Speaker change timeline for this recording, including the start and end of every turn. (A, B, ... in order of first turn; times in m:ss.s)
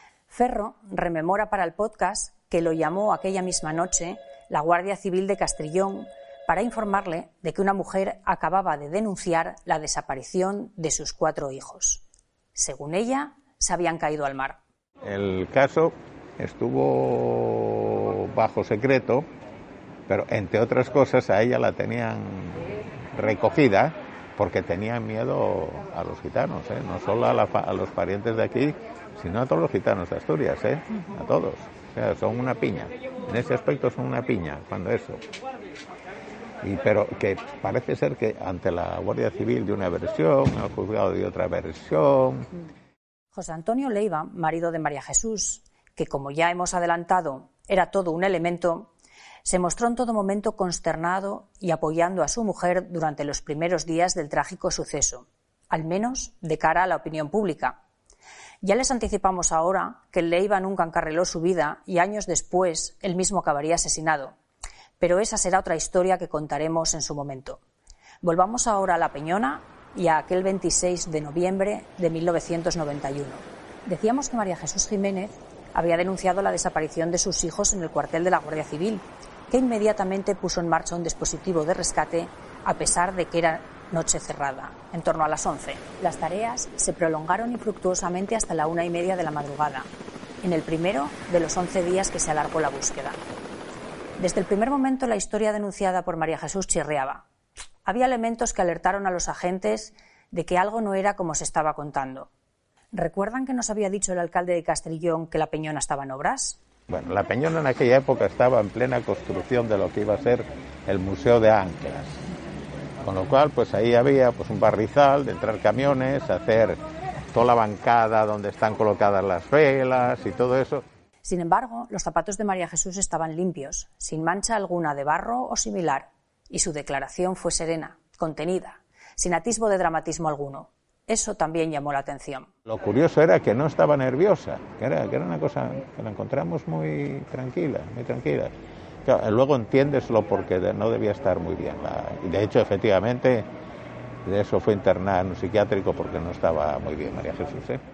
0:00.3-0:14.6 A
0:15.0-0:19.2 B
0:20.1-0:35.2 B
0:36.6-0:42.5 B
0:43.3-0:48.9 A
0:49.4-0:57.8 A
0:58.6-1:04.4 A
1:05.0-1:07.6 A
1:08.2-1:29.9 A
1:30.4-1:33.2 A
1:34.2-1:37.2 A
1:37.8-1:42.3 A
1:42.9-1:46.6 A
1:46.9-1:52.3 B
1:53.0-1:56.8 B
1:57.3-2:00.8 B
2:01.2-2:12.5 A
2:12.6-2:18.5 B
2:19.0-2:23.5 B
2:24.2-2:27.8 B